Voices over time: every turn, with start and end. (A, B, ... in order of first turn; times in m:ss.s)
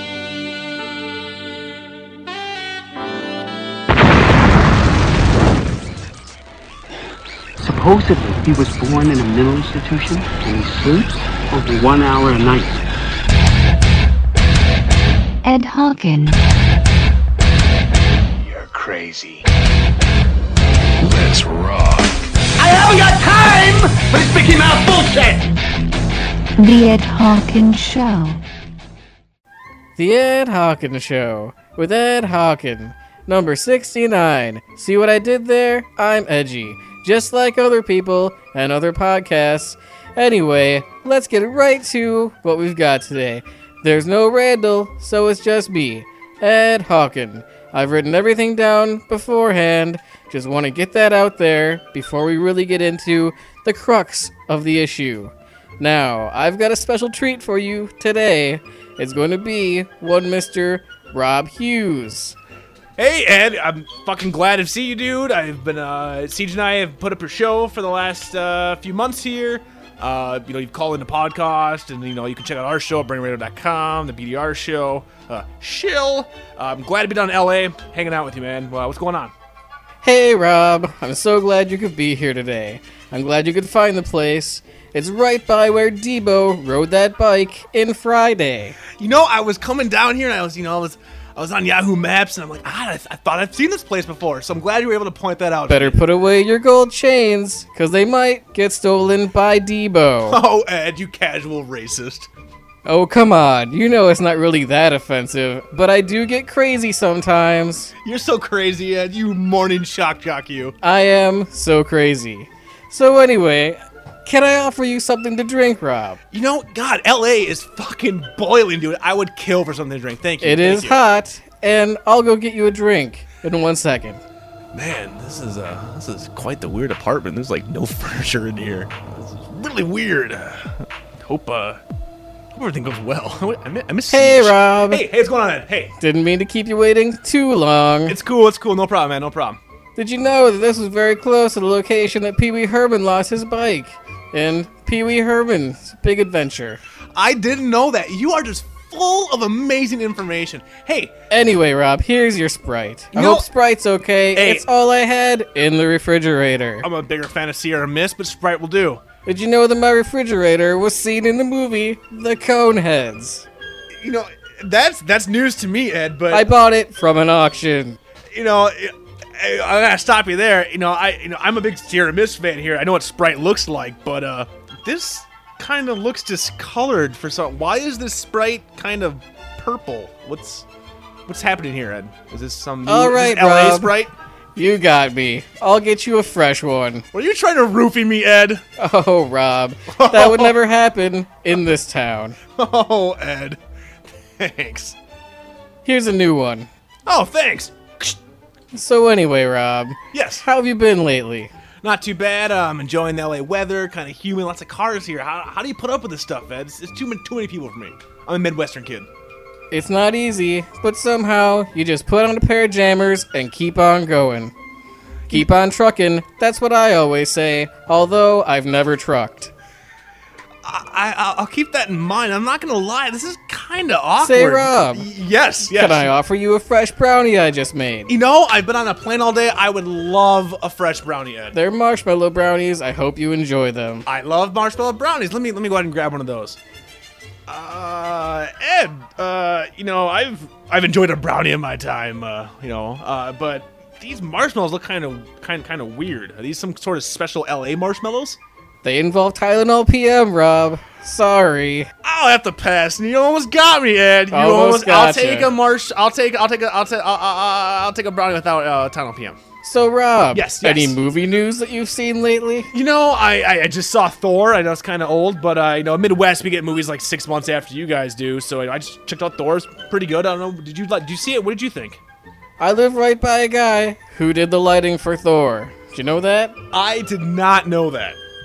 0:07.6-0:12.8 A
0:15.4-0:16.4 B
0:18.5-0:19.4 C
0:18.5-0:19.4 A
0:21.0-0:25.5 C
0:26.6-0:28.4 B
0:30.0-1:02.4 D
1:03.0-1:19.3 E
1:20.0-1:28.8 D
1:29.0-1:36.0 E
1:35.7-1:40.4 D
1:40.3-1:42.3 E
1:42.9-1:47.9 D
1:48.0-1:50.8 E
1:50.8-1:56.2 D
1:56.3-2:01.0 E
2:00.4-2:04.2 D
2:04.7-2:11.8 E
2:12.5-2:15.9 E
2:14.1-2:15.0 D
2:16.0-2:18.2 D
2:18.1-2:19.6 E
2:20.0-2:26.8 D
2:27.2-2:31.1 E
2:31.3-2:36.9 D
2:33.1-2:33.5 E
2:34.3-2:34.7 E
2:36.8-2:39.0 E
2:39.3-2:43.5 D
2:44.0-2:46.5 E
2:46.3-2:48.0 D
2:48.3-3:00.6 E
3:01.3-3:04.1 E
3:02.9-3:03.9 D
3:04.6-3:07.0 D
3:07.1-3:08.6 E
3:08.8-3:12.4 D
3:09.9-3:10.6 E
3:12.6-3:13.6 E
3:14.4-3:15.0 E
3:15.8-3:16.7 D
3:17.1-3:18.2 E
3:18.7-3:21.5 D
3:20.1-3:20.4 E
3:21.8-3:29.1 E
3:29.7-3:34.5 D
3:35.3-3:39.5 D
3:40.6-3:46.1 E
3:44.2-3:45.1 D
3:45.7-3:48.1 D
3:48.1-3:51.6 E
3:51.5-3:54.1 D
3:54.1-3:56.6 E
3:57.5-4:08.4 E
4:08.8-4:11.9 D
4:12.0-4:19.4 E
4:14.3-4:15.5 D
4:19.6-4:22.7 D
4:20.3-4:21.0 E
4:22.7-4:32.0 E
4:32.6-4:36.6 D
4:36.7-4:38.2 E